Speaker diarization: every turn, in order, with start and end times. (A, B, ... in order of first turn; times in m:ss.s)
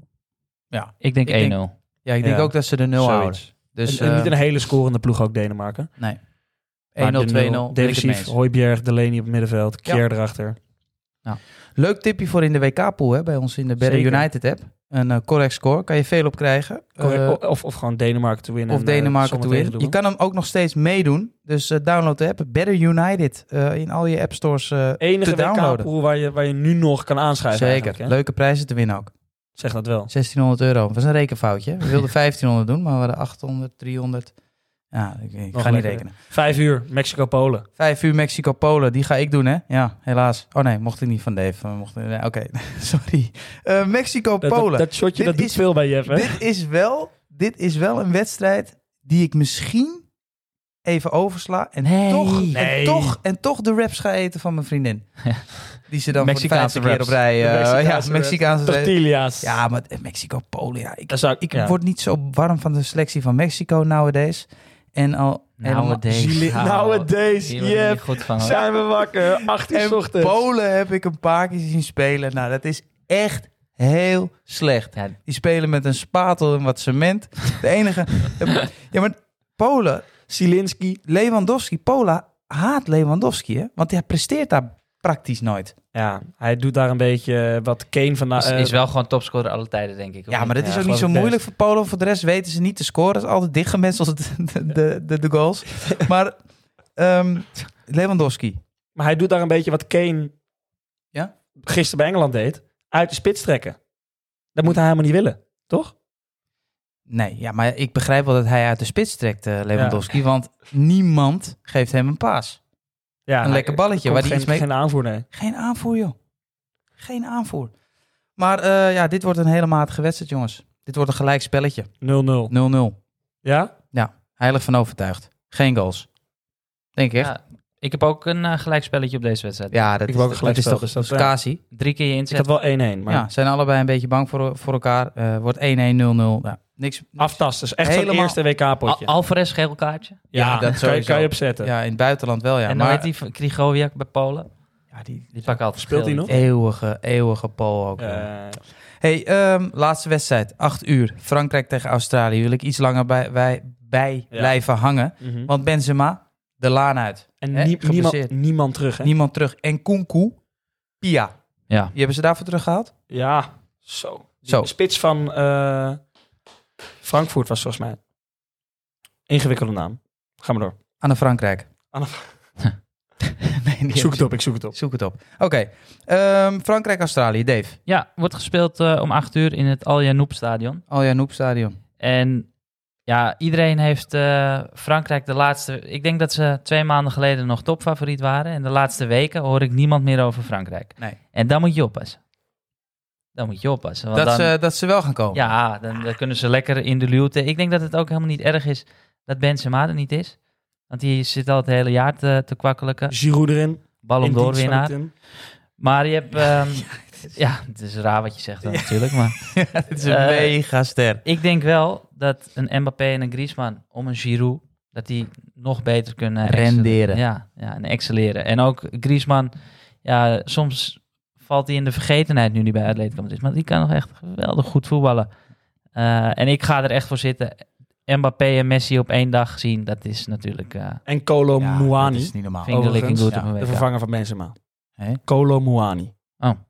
0:00.7-0:04.3 A
0:01.0-0:01.7 B
0:02.2-0:05.9 C
0:06.9-0:08.3 A
0:07.0-0:07.3 B
0:07.1-0:10.6 C
0:11.8-0:17.4 A
0:13.8-0:14.3 C
0:17.0-0:20.0 C
0:18.7-0:25.9 A
0:25.0-0:28.2 C
0:27.5-0:29.1 A
0:29.6-0:30.1 C
0:30.1-0:34.4 A
0:34.9-0:36.2 A
0:35.5-0:37.6 C
0:37.8-0:50.1 A
0:44.4-0:46.4 C
0:50.8-1:06.6 A
0:51.8-0:52.5 B
0:52.5-0:53.2 C
0:56.1-0:57.2 B
0:57.4-0:59.6 C
1:01.1-1:01.8 C
1:05.6-1:08.7 B
1:06.1-1:10.4 C
1:09.2-1:20.1 A
1:20.3-1:21.0 C
1:21.0-1:25.8 A
1:25.9-1:28.8 C
1:28.4-1:31.3 B
1:30.3-1:36.4 A
1:31.0-1:31.4 C
1:37.0-1:38.6 A
1:39.0-1:40.3 C
1:41.7-1:43.8 C
1:44.6-1:45.9 C
1:47.1-1:52.6 A
1:49.8-1:50.0 C
1:53.3-1:55.3 C
1:53.4-1:54.7 A
1:55.3-1:56.2 A
1:57.0-1:57.7 A
1:58.4-2:01.9 A
2:02.0-2:02.5 C
2:02.5-2:03.0 A
2:03.4-2:03.7 C
2:03.9-2:06.1 A
2:07.0-2:07.3 A
2:07.2-2:09.8 B
2:09.7-2:11.6 A
2:10.1-2:11.4 C
2:11.7-2:12.5 B
2:12.3-2:13.3 C
2:13.1-2:18.4 A
2:17.2-2:19.1 C
2:18.9-2:20.2 B
2:20.3-2:21.7 C
2:20.3-2:23.1 A
2:22.7-2:24.5 B
2:24.9-2:25.6 A
2:25.3-2:26.4 B
2:25.8-2:26.3 C
2:26.3-2:28.3 A
2:28.0-2:28.6 C
2:29.0-2:38.3 A
2:35.2-2:35.5 C
2:37.4-2:39.1 C
2:39.0-2:40.4 A
2:41.0-2:41.3 A
2:41.9-2:42.9 A
2:43.1-2:46.0 C
2:47.0-2:48.0 C
2:49.3-2:50.7 C
2:51.0-2:51.7 A
2:51.9-2:52.3 C
2:53.6-2:57.8 A
2:53.9-2:54.8 C
2:57.9-3:00.8 B
3:00.9-3:01.8 A
3:02.0-3:02.5 B
3:03.0-3:12.2 B
3:13.4-3:14.6 B
3:14.1-3:15.5 A
3:15.3-3:23.2 B
3:23.1-3:25.1 C
3:24.0-3:25.0 B
3:25.8-3:30.7 B
3:28.7-3:31.2 A
3:31.2-3:45.3 B
3:36.4-3:37.2 A
3:45.9-3:51.0 B
3:51.1-3:54.6 C
3:51.6-3:53.5 A
3:52.6-3:53.8 B
3:55.2-3:56.1 C